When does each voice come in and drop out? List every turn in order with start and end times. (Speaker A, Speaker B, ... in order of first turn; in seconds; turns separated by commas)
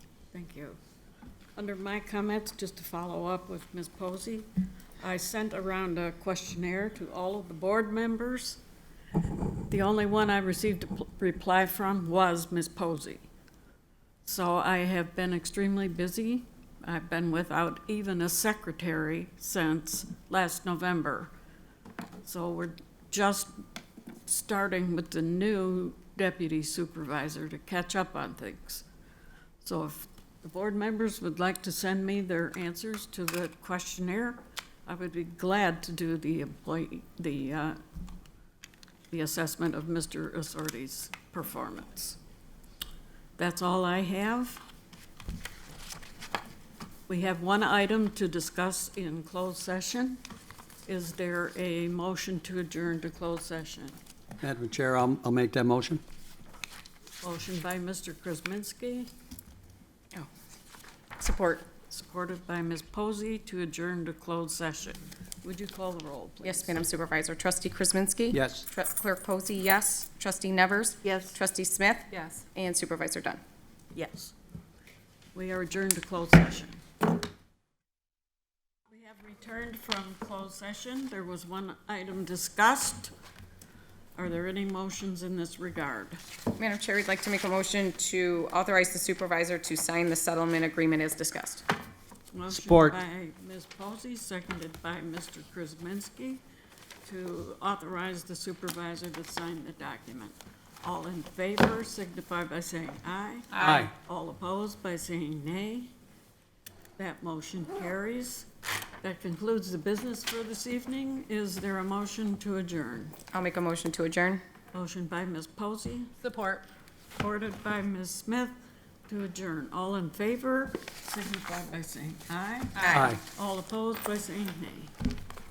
Speaker A: 0.3-0.8, Speaker A: 1.6-4.5, Speaker A: 5.0-8.6, Speaker A: 9.7-13.2, Speaker A: 14.2-21.3, Speaker A: 22.2-23.5, Speaker A: 24.2-28.8, Speaker A: 29.6-37.8, Speaker A: 39.1-42.2, Speaker A: 43.4-44.6, Speaker A: 47.1-50.2, Speaker A: 50.9-54.0, Speaker B: 54.4-56.0, Speaker A: 57.2-59.1, Speaker A: 61.2-66.8, Speaker C: 66.4-73.4, Speaker B: 68.3-68.6, Speaker A: 71.0-71.3, Speaker A: 73.9-74.3, Speaker A: 75.3-76.8, Speaker A: 78.9-83.1, Speaker A: 84.2-86.2, Speaker C: 86.5-91.6, Speaker A: 92.3-96.4, Speaker B: 92.5-93.0, Speaker A: 97.0-105.9, Speaker B: 103.6-103.9, Speaker A: 107.0-108.5, Speaker A: 109.0-113.2, Speaker C: 113.3-114.4, Speaker A: 114.7-116.3, Speaker A: 117.2-118.6, Speaker A: 119.1-124.9, Speaker C: 122.8-123.2, Speaker B: 122.9-123.2